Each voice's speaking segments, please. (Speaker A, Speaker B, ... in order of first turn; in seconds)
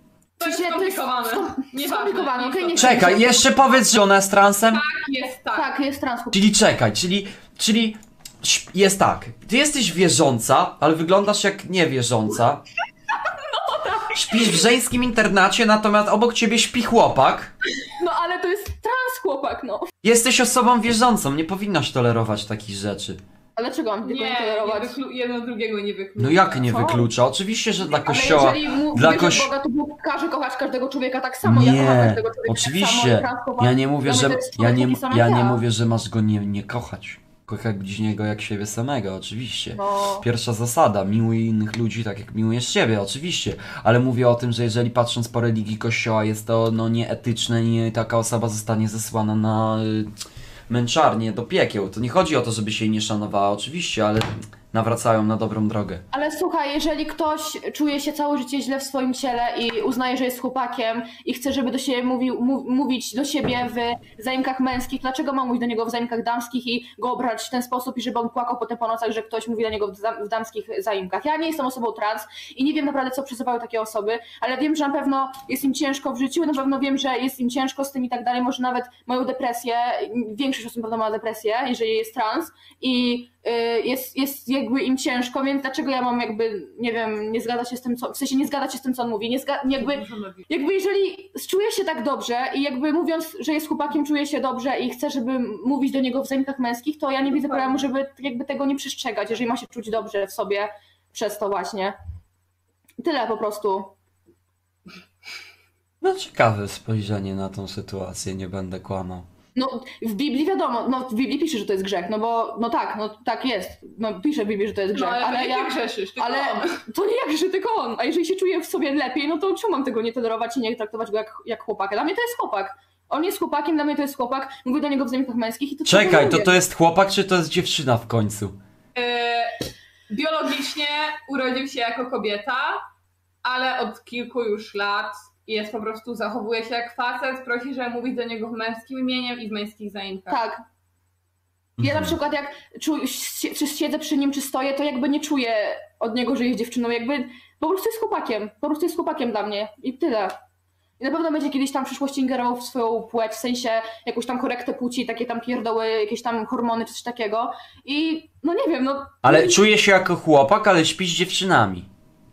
Speaker A: 0.4-3.4, 4.7-5.6, 24.0-26.8, 89.8-90.5, 97.2-97.8, 114.9-116.8, 128.9-129.6, 130.1-132.8, 133.4-140.4
Speaker B: 0.4-3.5, 5.5-6.4, 13.3-14.7, 17.8-19.9, 23.6-24.9, 26.7-27.0, 28.0-35.6, 39.7-40.2, 56.1-101.9, 103.0-103.9, 109.5-126.6, 140.3-140.6, 141.8-150.3, 151.0-159.6
Speaker C: 2.8-4.8, 6.3-12.6, 14.1-17.5, 20.0-23.2, 26.2-29.5, 31.4-50.1, 50.7-56.0, 106.0-109.3, 125.8-128.5, 141.8-142.2, 159.2-161.9